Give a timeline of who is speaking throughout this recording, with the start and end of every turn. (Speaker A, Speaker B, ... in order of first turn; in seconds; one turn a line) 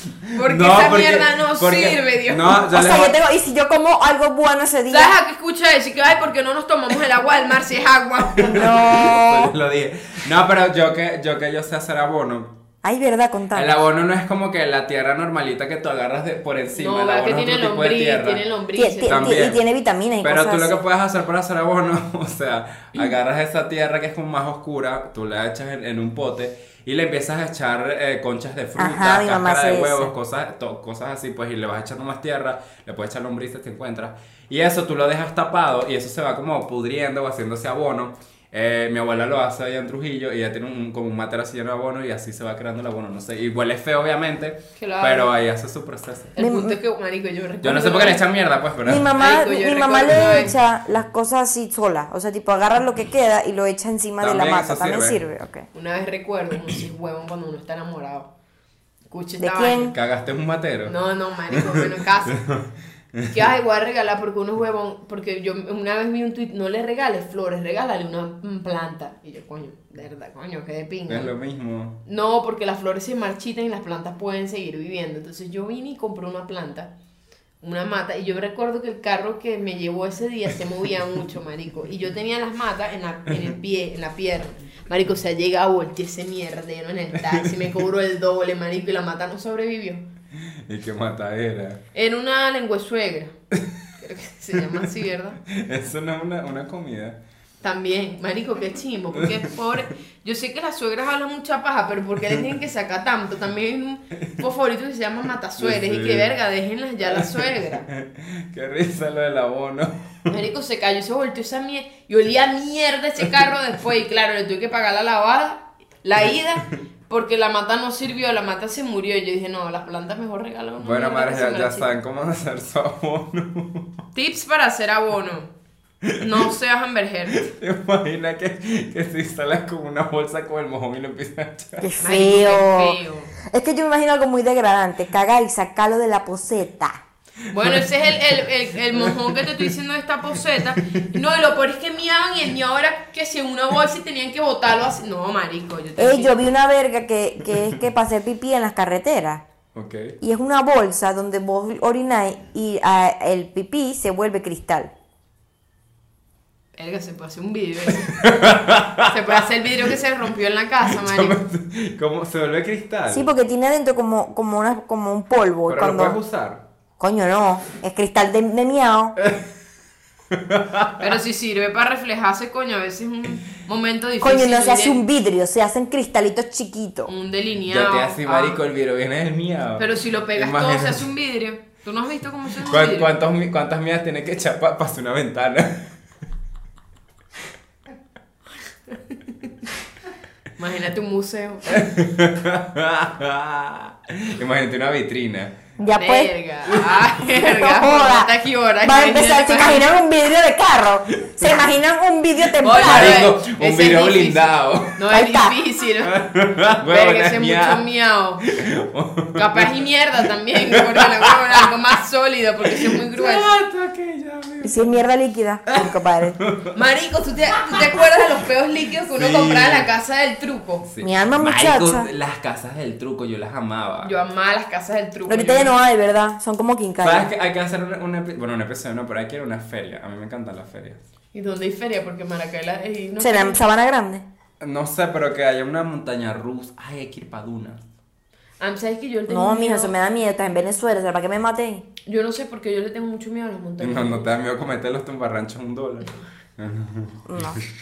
Speaker A: 0.3-3.1
Speaker B: 0.3-2.6
Speaker C: 2.6-5.1
Speaker B: 4.9-8.7
Speaker A: 8.4-12.6
Speaker C: 8.5-9.5
Speaker C: 12.8-13.7
Speaker A: 13.5-18.4
Speaker B: 16.7-19.4
Speaker C: 18.8-20.8
Speaker A: 19.1-19.6
Speaker A: 20.2-46.3
Speaker C: 28.8-30.1
Speaker B: 44.8-45.3
Speaker B: 46.4-48.2
Speaker C: 46.4-46.8
Speaker A: 47.6-49.1
Speaker C: 48.8-55.7
Speaker B: 49.1-50.5
Speaker A: 50.1-50.5
Speaker A: 54.2-55.2
Speaker B: 55.7-58.3
Speaker B: 59.1-60.0
Speaker C: 59.4-60.0
Speaker A: 59.9-61.0
Speaker B: 60.9-62.4
Speaker A: 61.5-63.3
Speaker B: 63.3-71.3
Speaker A: 71.1-72.0
Speaker B: 72.0-76.9
Speaker B: 77.6-90.0
Speaker A: 87.3-87.6
Speaker A: 90.7-91.8
Speaker B: 91.9-93.3
Speaker B: 94.0-95.4
Speaker A: 95.5-97.2
Speaker B: 97.6-107.9
Speaker A: 105.6-106.3
Speaker A: 107.1-110.3
Speaker B: 110.3-121.9
Speaker A: 120.8-124.0
Speaker B: 124.1-125.5
Speaker B: 126.2-127.5
Speaker A: 127.4-131.9
Speaker C: 131.8-137.0
Speaker B: 132.0-133.3
Speaker B: 137.5-146.4
Speaker A: 137.5-137.9
Speaker A: 138.9-139.7
Speaker C: 146.0-149.4
Speaker A: 149.7-150.2
Speaker C: 150.2-154.9
Speaker B: 156.8-158.2
Speaker A: 158.0-159.1
Speaker B: 159.1-161.4
Speaker A: 160.8-163.3
Speaker C: 163.1-166.2
Speaker A: 165.7-166.6
Speaker C: 167.0-169.1
Speaker A: 170.3-171.1
Speaker B: 171.0-175.0
Speaker C: 174.2-177.1
Speaker B: 177.1-178.6
Speaker A: 177.7-181.1
Speaker B: 179.8-183.1
Speaker A: 182.6-185.9
Speaker B: 188.9-189.5
Speaker B: 190.6-191.8
Speaker A: 191.7-195.5
Speaker C: 195.8-196.3
Speaker B: 196.0-199.9
Speaker C: 197.2-198.3
Speaker C: 198.8-203.3
Speaker A: 202.4-205.0
Speaker B: 202.6-206.2
Speaker C: 205.1-205.5
Speaker A: 206.0-207.8
Speaker B: 206.8-208.4
Speaker A: 208.4-209.8
Speaker B: 209.4-213.5
Speaker A: 210.6-211.5
Speaker A: 212.8-215.0
Speaker C: 214.6-216.4
Speaker A: 216.4-216.7
Speaker B: 216.7-220.8
Speaker A: 219.1-219.9
Speaker A: 220.8-224.1
Speaker C: 221.0-222.1
Speaker B: 224.0-225.7
Speaker C: 225.3-227.3
Speaker A: 227.0-231.0
Speaker B: 231.3-233.6
Speaker C: 233.2-234.2
Speaker A: 234.6-237.8
Speaker B: 238.6-239.9
Speaker C: 239.3-241.9
Speaker B: 242.1-244.3
Speaker A: 243.8-247.6
Speaker C: 247.3-247.6